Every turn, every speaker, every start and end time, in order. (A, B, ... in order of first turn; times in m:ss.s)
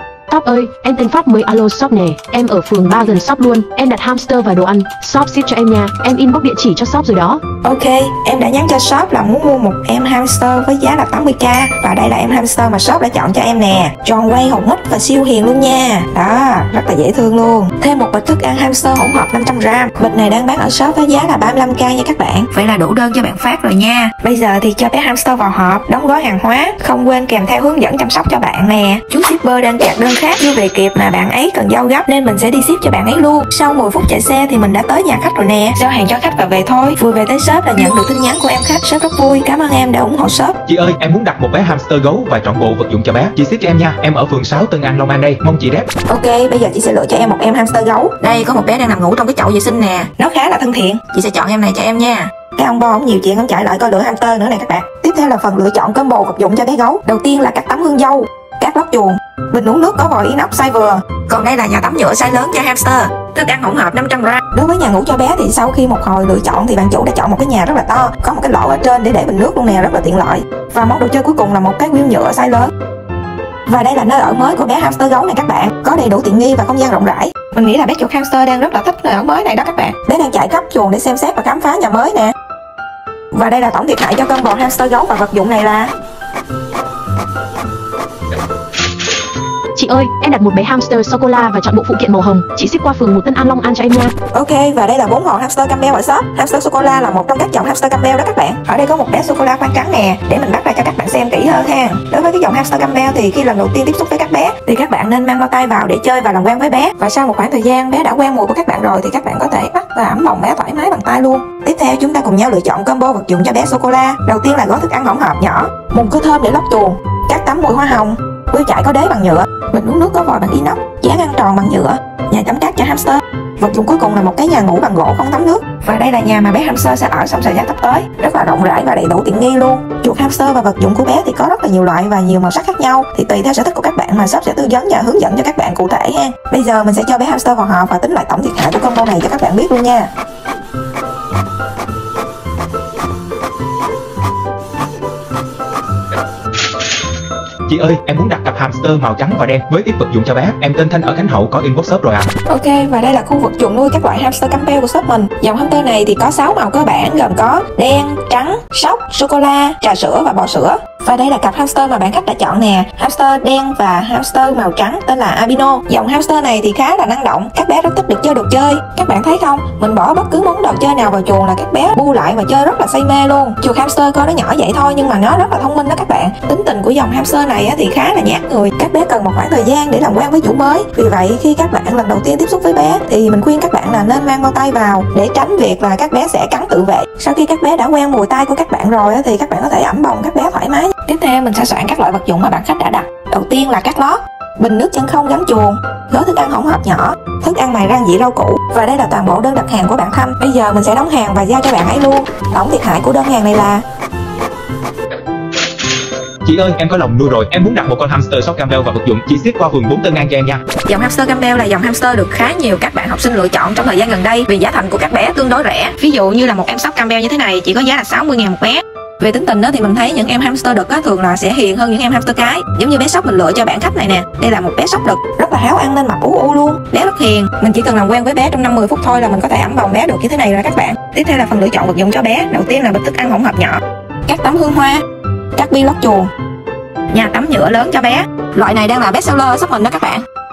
0:00.3-0:07.4 A
0:07.6-0:40.5 B
0:40.7-0:45.9 C
0:46.1-1:12.7 B
1:13.7-1:22.3 B
1:23.3-1:25.9 B
1:29.7-1:34.1 A
1:34.3-2:20.1 B
2:27.7-2:32.3 C
2:32.5-3:23.8 B
3:26.4-3:30.6 C
3:30.8-3:55.0 B
3:55.5-3:56.3 B
3:57.1-4:00.2 B